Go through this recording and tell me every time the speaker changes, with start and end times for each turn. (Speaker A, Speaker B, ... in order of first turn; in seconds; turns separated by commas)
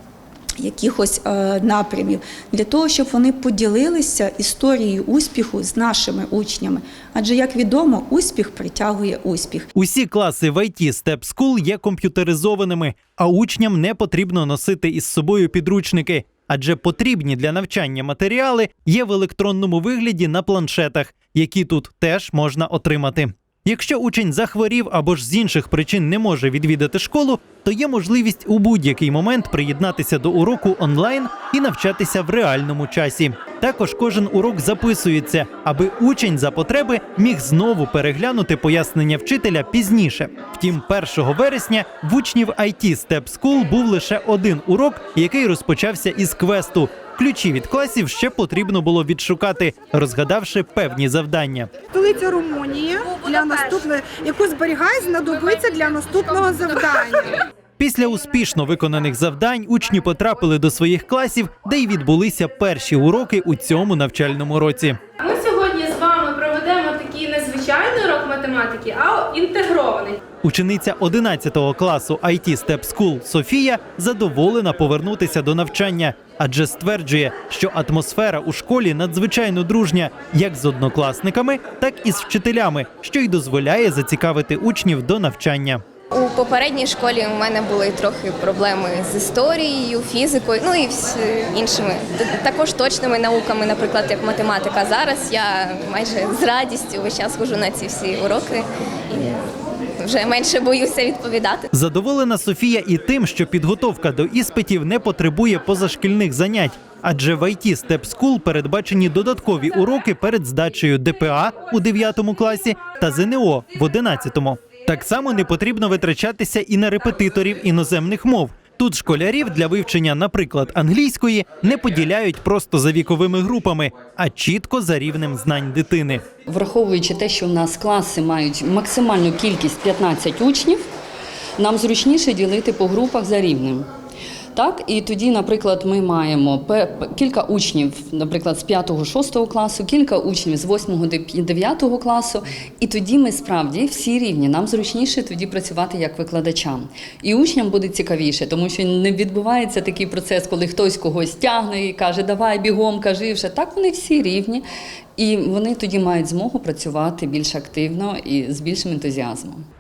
Speaker A: 0.6-9.7, Speaker B: 9.8-51.7, Speaker C: 52.0-57.2, Speaker B: 57.8-65.0, Speaker D: 65.2-70.2, Speaker B: 70.4-85.8, Speaker E: 86.1-101.7, Speaker B: 101.7-126.2, Speaker F: 126.5-130.9, Speaker F: 131.6-133.9, Speaker F: 134.6-154.6, Speaker F: 155.2-159.7